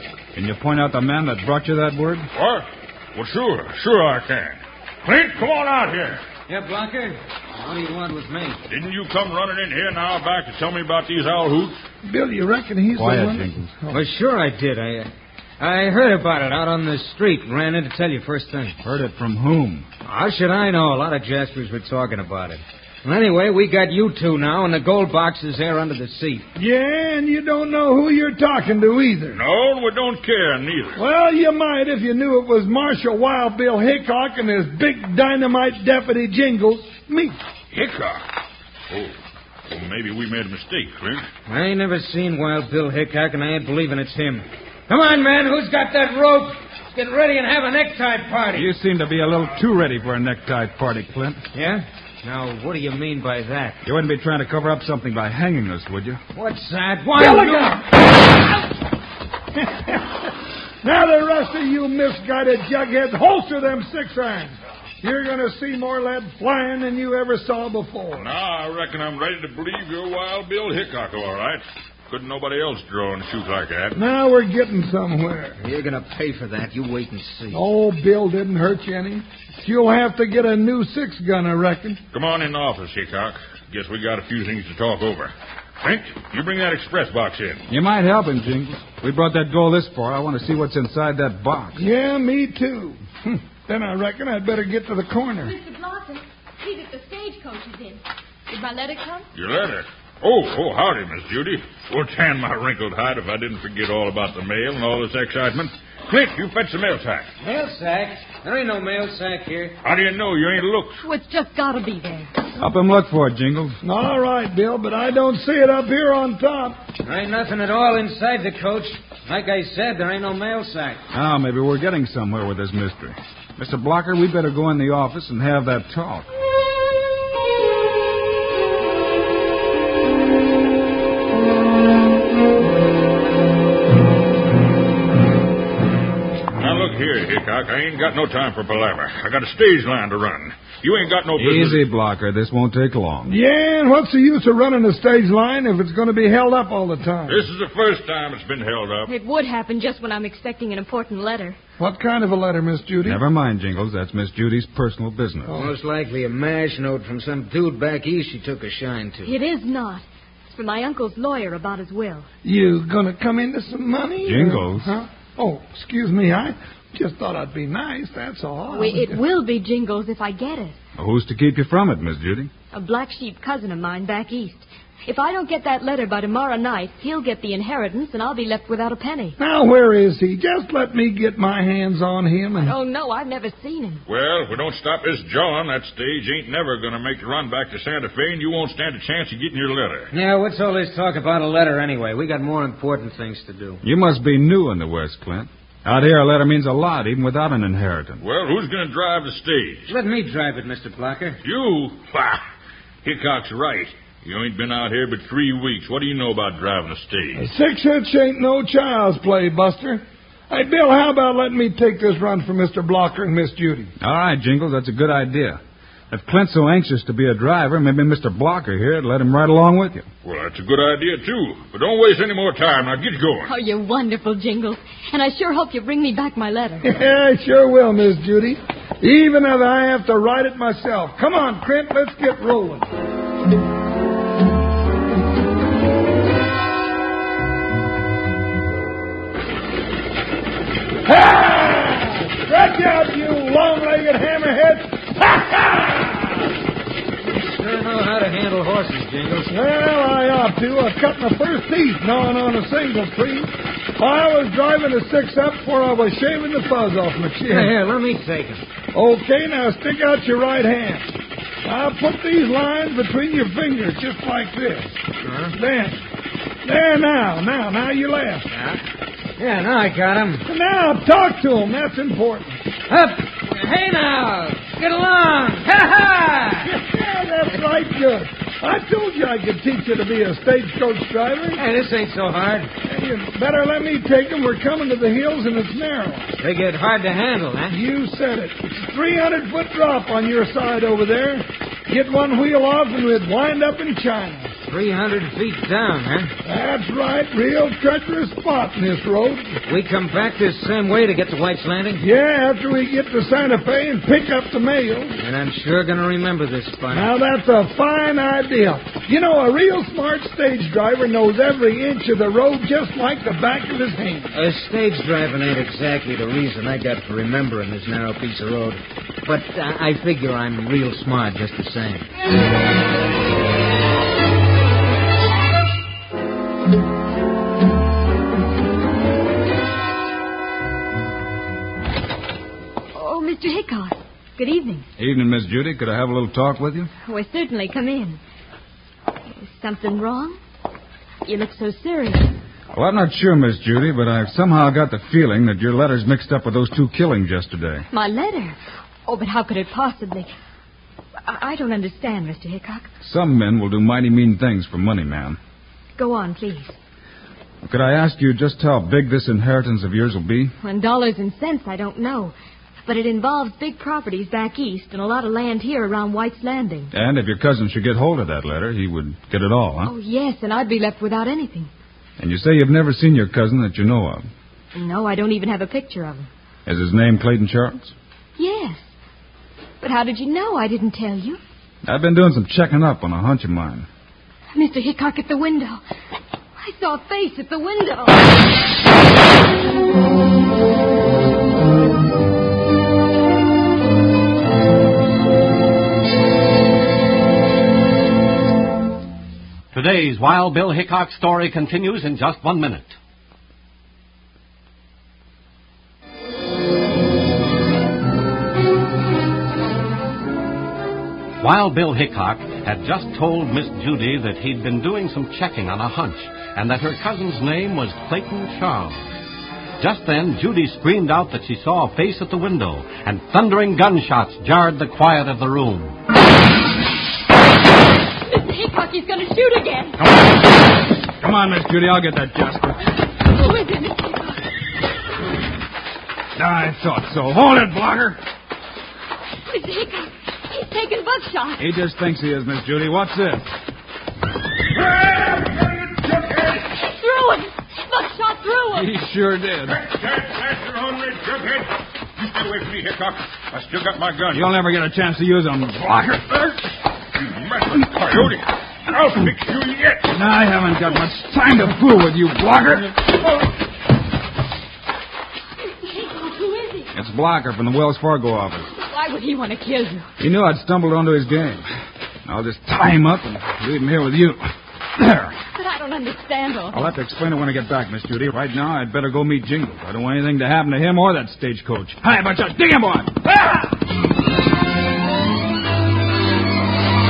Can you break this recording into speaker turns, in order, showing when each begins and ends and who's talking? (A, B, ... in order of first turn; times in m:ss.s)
0:00.3-0:02.3 A
0:02.3-0:06.2 B
0:06.5-0:08.6 C
0:08.7-0:11.8 B
0:12.0-0:14.0 D
0:12.9-0:13.7 A
0:13.9-0:18.8 C
0:18.8-0:19.8 A
0:20.0-0:26.4 C
0:26.6-0:29.4 D
0:29.3-0:31.0 B
0:30.9-0:37.4 D
0:37.7-0:38.2 B
0:39.7-0:41.2 B
0:41.5-0:48.7 C
0:48.5-0:51.4 A
0:51.5-0:53.8 C
0:53.8-0:56.2 A
0:56.3-0:57.8 C
0:57.2-0:57.8 D
0:59.6-1:00.2 D
1:00.8-1:08.3 D
1:08.1-1:14.0 B
1:13.9-1:15.6 D
1:15.6-1:17.6 C
1:17.5-1:22.0 D
1:22.1-1:27.6 B
1:27.7-1:31.8 A
1:31.8-1:35.5 D
1:35.4-1:39.3 E
1:39.3-1:47.3 B
1:47.4-1:49.8 C
1:49.8-1:51.0 B
1:51.0-1:52.3 E
1:52.6-1:53.8 A
1:53.8-1:56.8 D
1:57.0-2:01.0 C
2:01.1-2:06.3 A
2:16.6-2:21.8 B
2:21.4-2:23.4 A
2:23.3-2:27.4 D
2:27.3-2:29.1 B
2:29.1-2:31.6 E
2:31.8-2:33.2 D
2:33.0-2:35.6 A
2:35.5-2:39.3 C
2:39.2-2:42.3 E
2:42.4-2:49.2 D
2:44.2-2:45.0 A
2:48.7-2:50.8 E
2:51.0-2:52.5 A
2:52.7-2:59.4 E
2:59.4-3:02.7 D
3:02.6-3:04.0 E
3:04.1-3:10.1 B
3:10.1-3:13.8 C
3:13.8-3:18.2 A
3:18.2-3:19.9 B
3:19.9-3:21.4 C
3:21.4-3:22.4 B
3:23.0-3:27.5 B
3:27.3-3:33.9 D
3:34.0-3:35.6 A
3:36.1-3:40.1 A
3:40.2-3:43.5 B
3:43.5-3:47.0 E
3:46.8-3:52.9 D
4:01.0-4:06.5 D
4:07.2-4:09.5 C
4:09.4-4:17.8 D
4:17.5-4:18.6 C
4:18.9-4:21.1 D
4:21.6-4:25.0 D
4:25.2-4:25.6 C
4:25.5-4:26.0 D
4:26.6-4:28.5 D
4:28.5-4:28.8 C
4:29.4-4:30.4 C
4:30.4-4:32.6 D
4:32.9-4:36.7 C
4:36.6-4:41.6 D
4:41.5-4:42.7 C
4:42.8-4:46.3 D
4:46.4-4:47.8 C
4:47.7-4:54.5 D
4:54.6-4:56.3 C
4:56.4-4:59.6 D
4:59.6-5:02.0 C
5:02.0-5:05.2 D
5:05.2-5:07.1 C
5:06.9-5:14.3 D
5:14.3-5:22.1 C
5:32.9-5:34.8 E
5:35.0-5:36.9 A
5:37.1-5:38.2 E
5:39.3-5:40.4 E
5:41.2-5:42.3 E
5:42.7-5:47.9 A
5:47.9-5:50.3 E
5:51.2-5:52.9 E
5:53.0-5:55.4 A
5:56.0-5:56.8 E
5:57.6-6:00.5 A
6:00.6-6:02.3 E
6:02.8-6:06.9 E
6:06.9-6:09.9 A
6:09.8-6:11.7 E
6:12.2-6:14.2 A
6:14.7-6:16.3 E
6:16.6-6:17.9 A
6:18.4-6:18.9 E
6:19.8-6:21.4 E
6:21.8-6:23.9 A
6:24.5-6:25.8 E
6:26.6-6:28.3 E
6:39.7-6:43.0 F
6:51.4-6:59.1 F
6:59.8-7:06.0 F
7:08.3-7:10.0 E
7:10.0-7:10.4 A
7:11.2-7:12.8 A
7:13.2-7:14.4 E
7:16.4-7:18.2 A
7:19.5-7:21.6 E
7:21.6-7:23.5 A
7:24.7-7:26.7 B
7:26.8-7:28.9 E
7:28.7-7:29.8 A
7:29.7-7:34.5 B
7:34.3-7:36.6 A
7:37.2-7:40.1 B
7:40.1-7:43.0 A
7:45.7-7:46.9 E
7:46.9-7:48.7 A
7:48.8-7:50.1 E
7:50.2-7:51.6 A
7:52.2-7:55.4 A
7:55.5-7:56.9 E
7:56.7-8:03.7 A